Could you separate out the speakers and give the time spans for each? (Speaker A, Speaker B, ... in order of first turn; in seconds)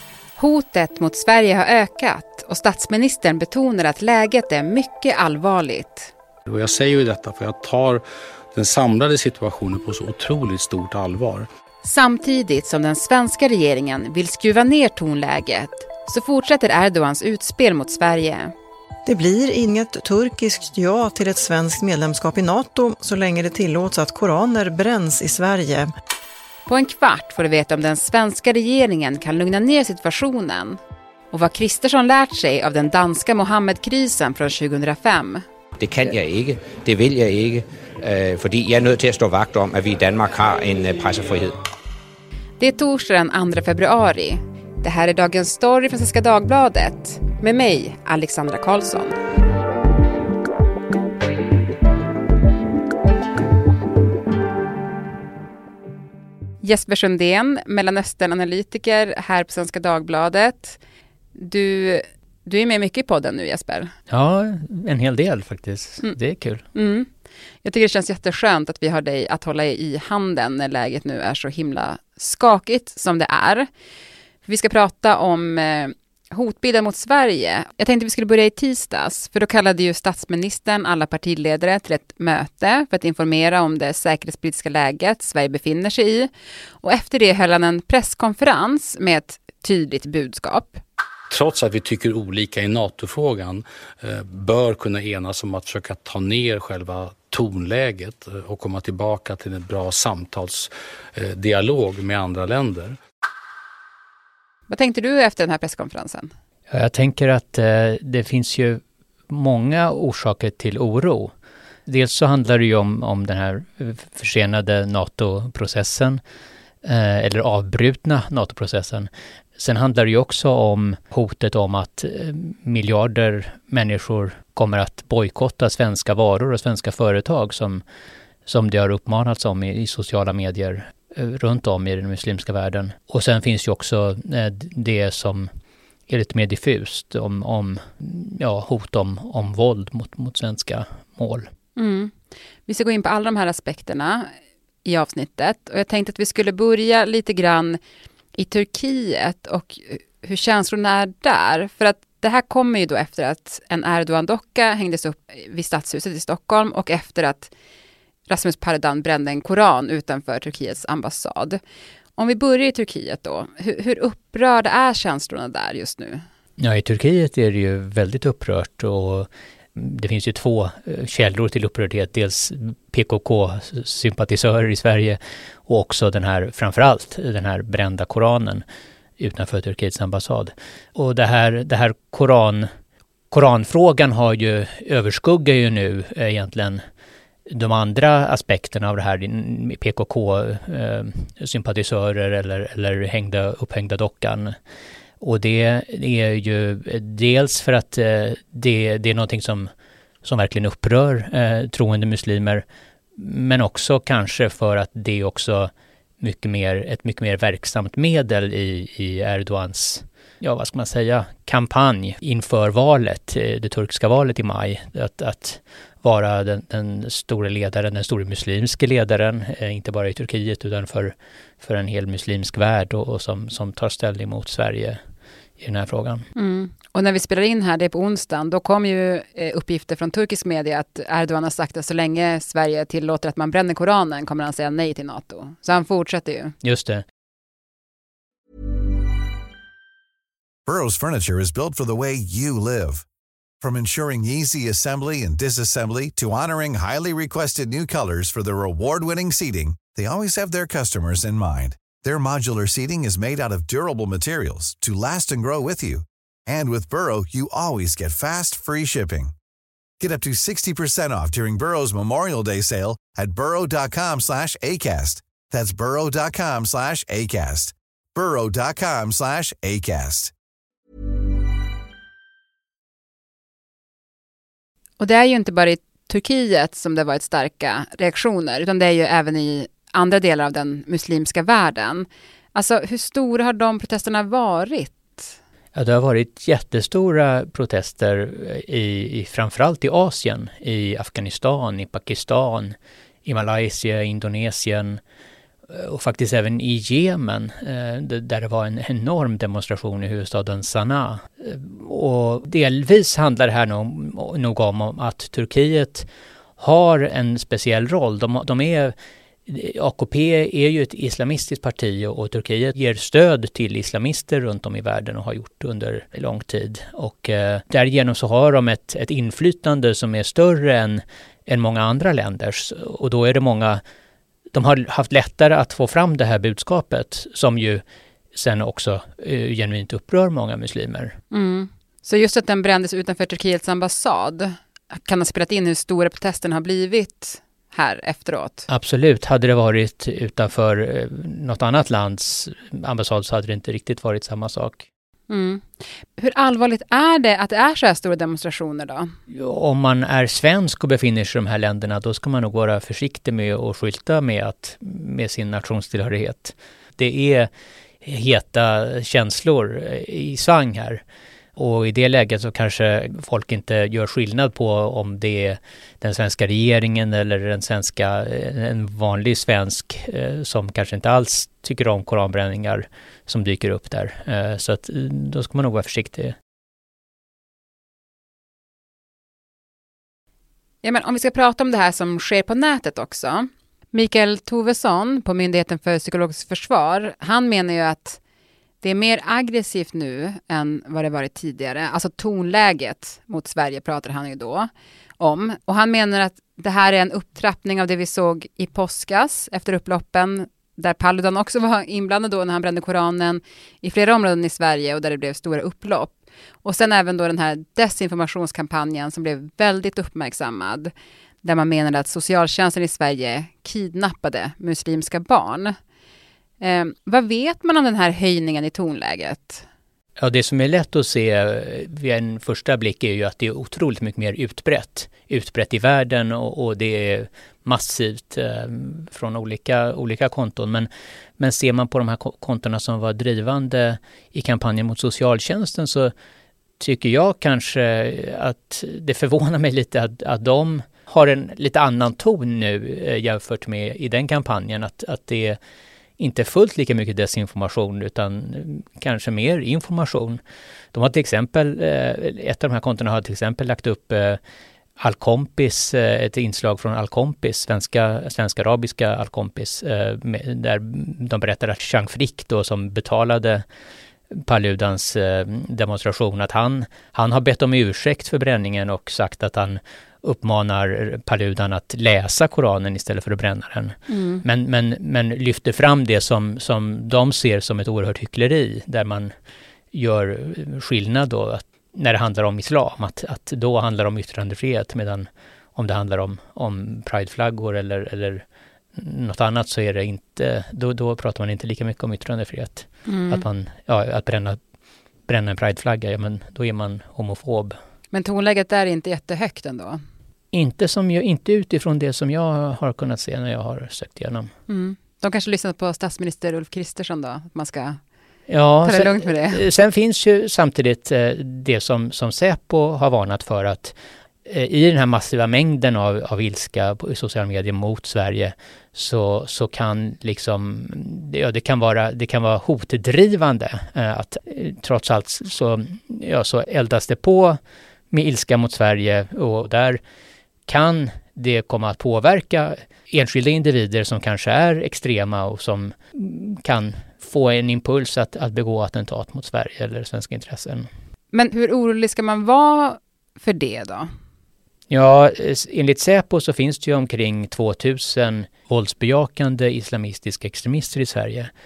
Speaker A: 0.4-6.1, 11.8-18.5, 26.7-30.8, 31.3-35.4, 42.6-49.1, 56.6-60.8, 61.3-63.9, 66.7-67.1, 67.6-73.7, 74.4-86.3, 86.8-90.8, 104.7-106.3, 141.8-142.1, 142.7-144.3, 144.8-147.8, 148.3-157.5, 158.3-161.6, 162.2-166.2, 226.3-236.5, 275.0-285.3, 331.3-338.6, 345.3-349.1, 380.8-388.2, 388.8-415.7, 416.6-419.6, 474.1-474.4, 493.1-493.4, 498.1-500.0, 504.7-508.0, 508.8-509.6, 541.3-544.1
Speaker B: 6.5-8.0, 8.5-11.5, 91.3-103.0
Speaker C: 19.1-25.9
Speaker D: 35.8-41.5
Speaker E: 64.1-66.7, 106.7-111.3, 111.9-116.2, 116.8-127.8, 128.4-135.5, 136.1-141.5, 166.6-178.6, 179.2-182.7, 183.3-186.8, 187.5-194.5, 195.2-199.7, 200.2-202.6, 203.2-225.0, 225.6-226.3, 236.6-237.0, 285.7-292.7, 293.2-295.0, 295.7-306.1, 306.6-308.9, 309.5-323.8, 324.5-327.8, 328.3-331.2, 338.7-344.8, 349.3-357.5, 358.0-361.0, 361.6-376.3, 420.2-430.9, 431.4-436.1, 436.8-445.6, 446.2-450.4, 450.9-454.4, 455.0-463.6, 464.3-479.3, 479.9-488.4, 488.9-494.6, 495.3-497.8, 500.5-504.5, 508.5-513.9, 514.5-527.6, 528.1-530.0, 530.7-540.9, 544.9-551.5
Speaker F: 240.7-243.0, 243.6-259.3, 260.0-270.3